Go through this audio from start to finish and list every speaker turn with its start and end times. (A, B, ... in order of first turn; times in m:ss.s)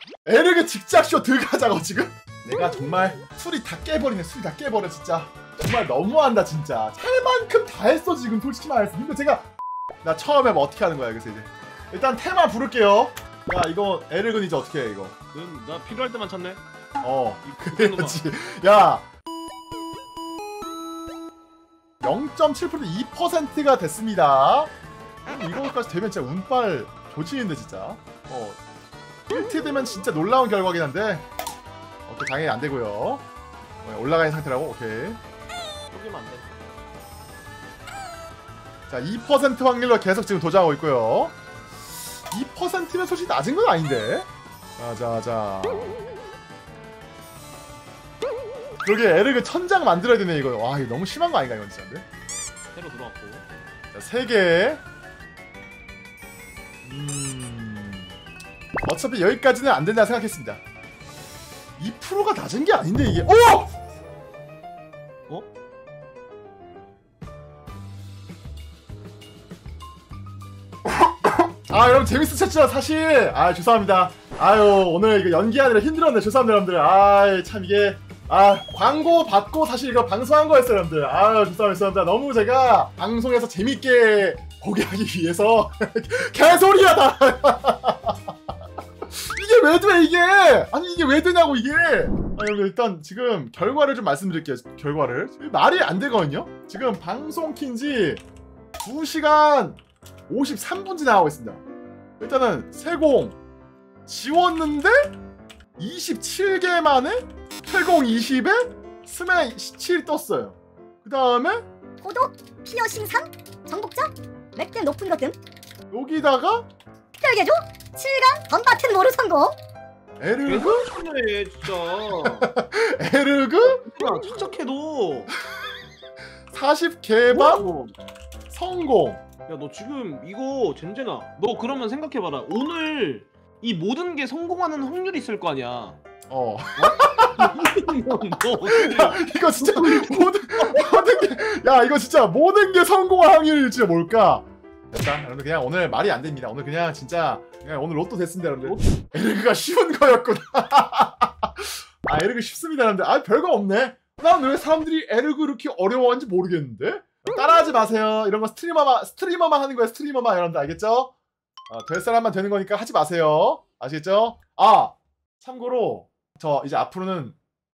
0:00.2-0:09.5 A
0:10.0-0:15.2 A
0:15.3-0:16.6 B
0:17.0-0:19.0 A
0:17.4-0:18.2 B
0:22.0-0:24.7 A
0:25.2-0:28.6 A
0:29.3-0:31.2 A
0:32.1-0:33.2 A
0:33.8-0:35.2 A
0:35.9-0:36.7 B
0:38.9-0:41.3 A
0:42.3-0:46.0 A
0:48.8-0:52.0 A
0:52.7-0:53.4 B
0:53.9-0:54.8 A
0:56.8-0:58.1 A
0:58.8-1:00.6 A
1:01.8-1:03.7 A
1:11.5-1:28.2 A
1:29.1-1:38.2 A
1:38.8-1:41.6 A
1:42.2-1:43.4 A
1:44.1-1:45.1 A
1:45.8-1:51.6 A
1:52.0-1:55.4 C
1:55.9-1:56.6 A
1:57.2-1:59.6 C
2:00.2-2:00.8 A
2:00.4-2:02.5 B
2:02.2-2:03.8 A
2:03.8-2:05.3 B
2:06.5-2:07.7 A
2:07.3-2:07.9 B
2:08.5-2:09.2 A
2:09.5-2:16.0 B
2:16.3-2:17.7 A
2:16.8-2:21.2 B
2:18.6-2:41.1 A
2:28.6-2:28.9 B
2:41.7-2:47.4 A